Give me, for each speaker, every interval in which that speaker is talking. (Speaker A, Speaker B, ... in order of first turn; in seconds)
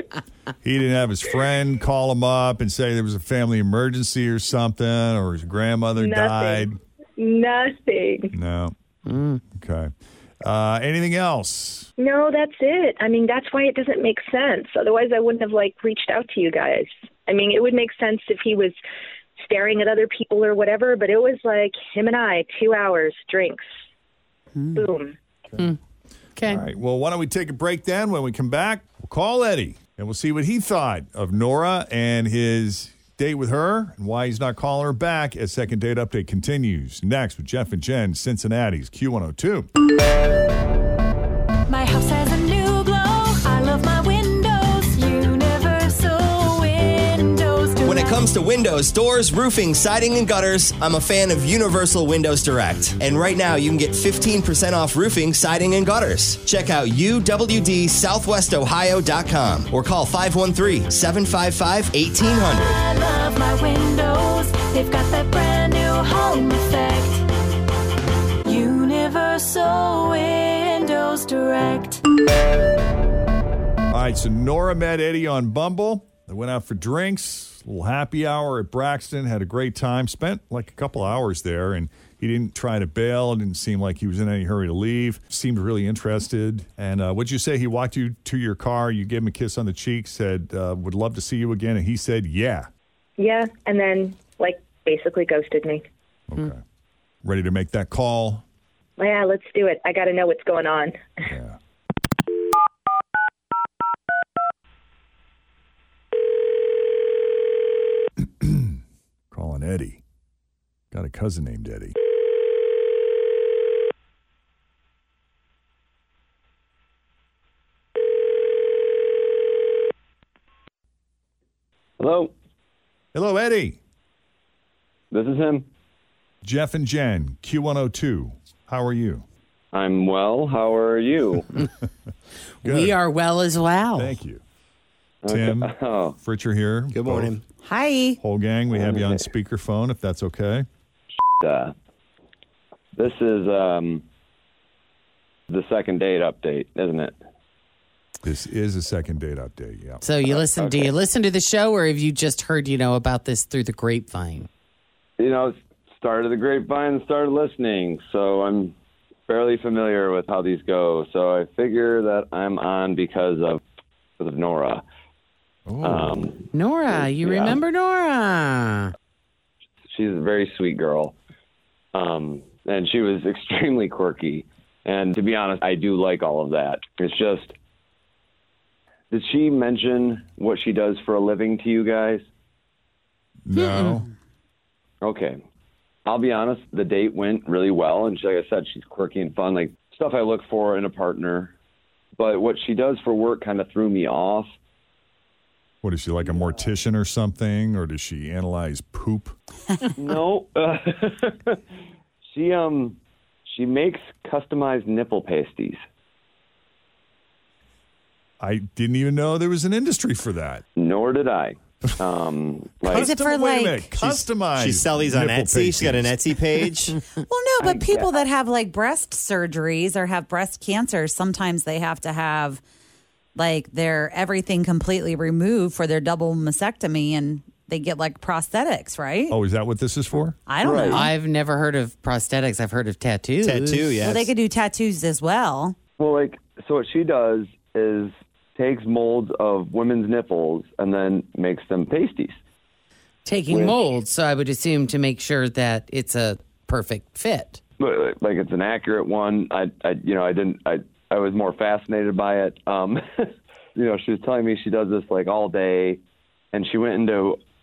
Speaker A: 0.6-6.8, 8.3-8.7, 9.6-9.9, 10.4-11.9, 26.4-39.7, 73.9-92.7, 96.3-96.6, 97.2-98.4, 101.3-101.6, 108.4-108.7, 109.3-110.0, 110.9-111.9, 123.1-123.8, 126.4-129.2, 132.6-132.9, 133.9-134.4, 135.3-137.4, 138.2-140.6, 148.2-150.0, 165.7-166.3, 183.4-184.0, 195.8-199.3, 208.4-210.6, 212.9-216.2, 229.3-230.4
Speaker B: 6.0-8.3, 12.0-18.7, 19.4-23.6, 24.7-25.2, 93.2-95.8, 99.0-100.9
Speaker C: 9.1-9.4, 26.4-26.6, 132.6-134.1, 150.0-154.5, 166.5-168.9, 183.5-184.0, 230.9-233.9, 243.2-247.6
Speaker D: 24.6-24.9, 137.6-138.2, 212.9-213.9, 217.1-222.6, 223.3-229.4, 230.5-231.1, 234.0-235.8
Speaker E: 41.7-48.2, 62.7-67.2, 68.4-72.0
Speaker F: 47.9-62.8, 136.9-137.4, 214.0-217.0, 233.4-234.3
Speaker G: 122.0-122.3, 125.1-125.7, 129.7-131.4, 135.2-136.1, 138.7-139.2, 141.4-141.7, 142.9-144.0, 145.5-147.1, 150.2-150.9, 155.2-158.7, 159.3-163.6, 164.2-164.8, 165.8-167.6, 169.9-171.1, 171.9-177.5, 179.1-182.2, 185.0-185.4, 186.1-191.5, 192.2-194.5, 200.0-201.6, 202.3-205.8, 210.8-213.1, 217.6-218.1, 230.6-231.0, 236.0-242.4, 243.5-243.8, 247.8-256.0, 256.5-257.4